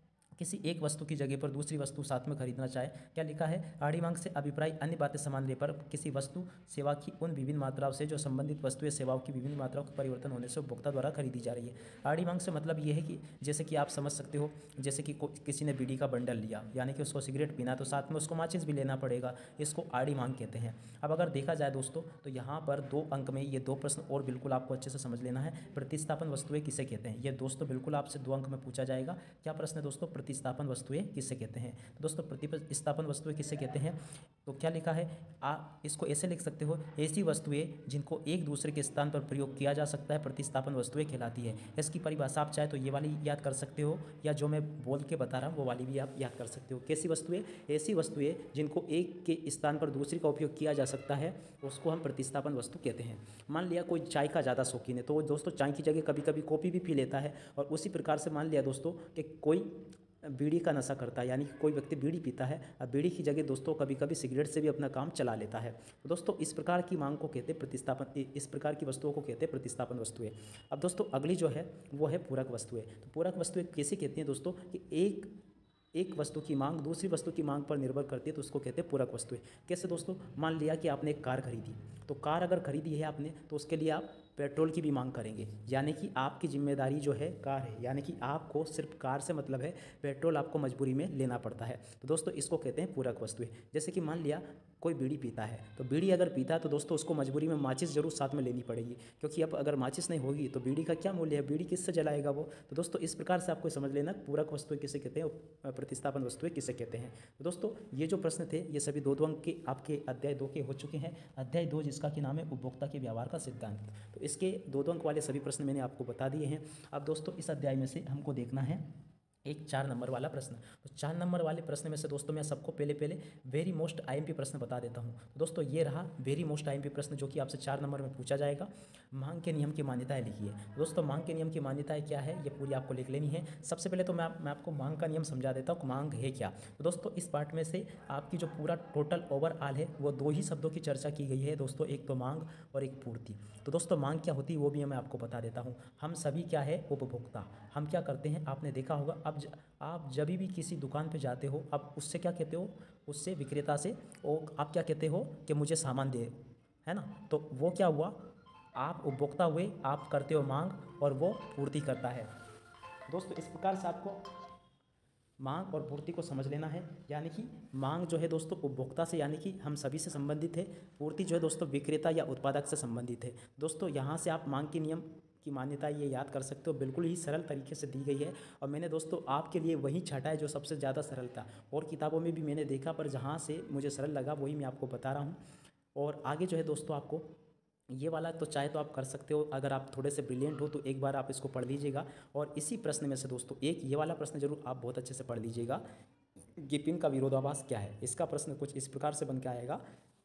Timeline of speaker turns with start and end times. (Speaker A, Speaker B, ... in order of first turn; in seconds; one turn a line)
Speaker A: 0.4-75.3
Speaker A: 75.9-118.8
Speaker A: 119.4-158.2
Speaker A: 158.7-162.3
Speaker A: 163.1-164.3
Speaker A: 165.4-185.4
Speaker A: 185.9-187.3
Speaker A: 187.9-195.8
Speaker A: 196.6-199.8